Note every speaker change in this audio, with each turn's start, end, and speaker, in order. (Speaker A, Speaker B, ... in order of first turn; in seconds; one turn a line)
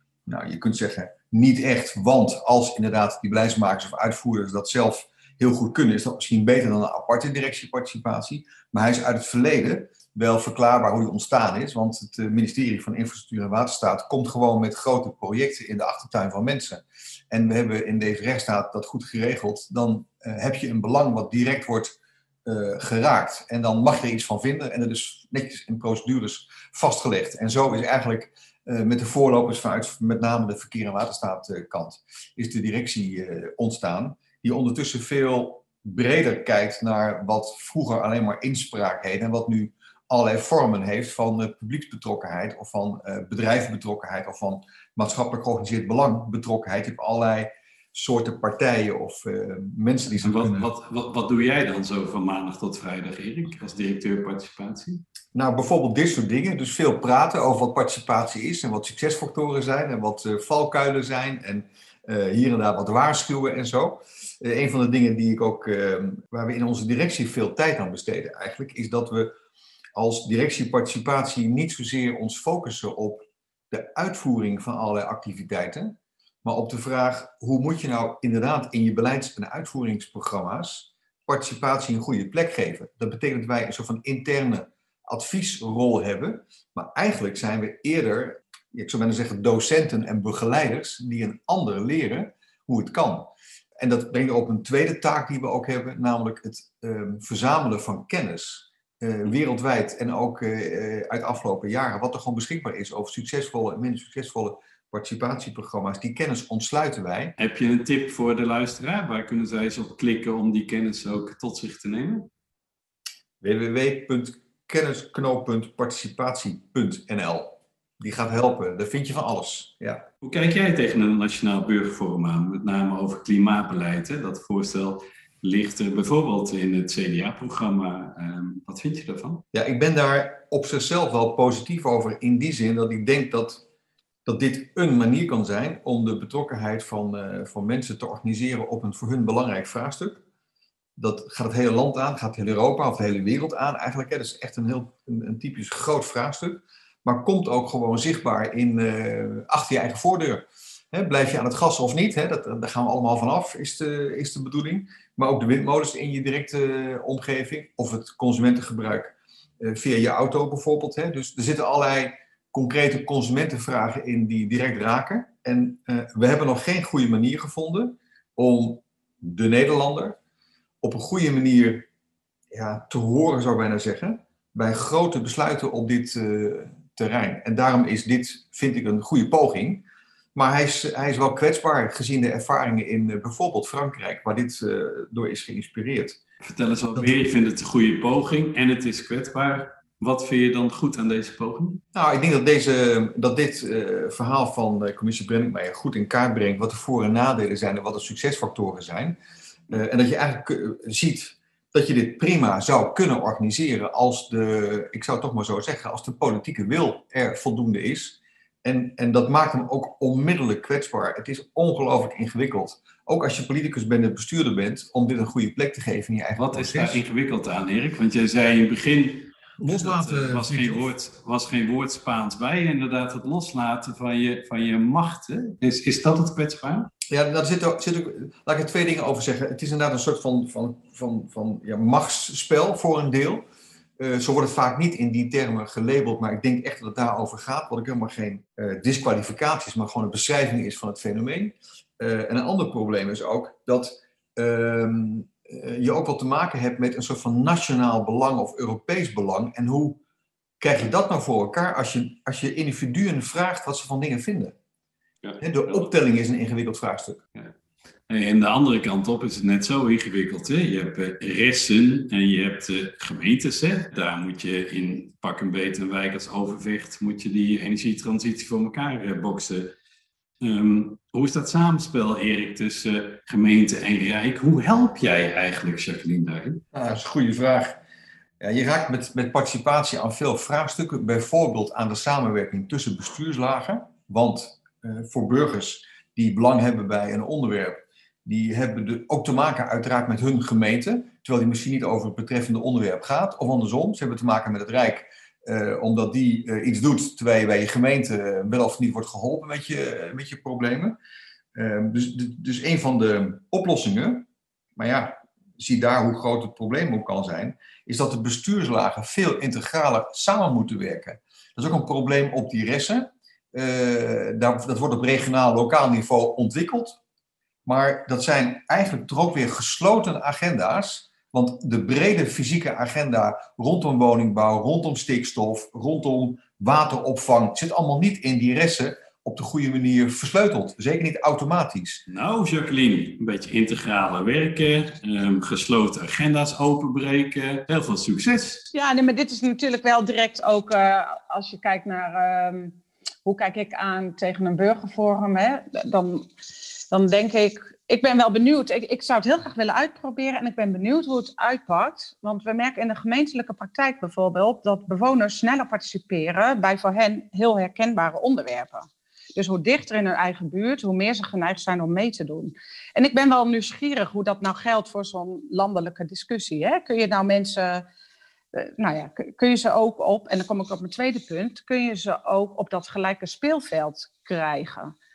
Speaker A: 0.2-50.7
Speaker B: 50.2-55.0
Speaker A: 55.3-69.3
Speaker A: 70.0-107.3
Speaker B: 107.4-112.3
Speaker A: 113.4-120.1
Speaker B: 120.2-129.4
Speaker A: 129.5-133.6
Speaker A: 134.2-140.2
Speaker A: 141.0-170.2
Speaker A: 170.8-171.9
Speaker A: 172.5-186.2
Speaker B: 186.4-191.8
Speaker A: 191.9-199.2
Speaker A: 199.7-217.0
Speaker B: 216.3-226.9
Speaker A: 219.6-220.9
Speaker A: 227.1-233.4
Speaker A: 234.0-250.0
Speaker A: 250.6-254.6
Speaker B: 255.2-255.9
Speaker A: 255.4-257.2
Speaker B: 258.1-269.7
Speaker B: 270.4-276.6
Speaker A: 276.7-277.8
Speaker A: 278.4-301.0
Speaker A: 301.5-317.0
Speaker A: 317.6-332.0
Speaker B: 332.1-338.7
Speaker C: 338.7-346.3
Speaker C: 346.9-367.9
Speaker C: 368.5-374.9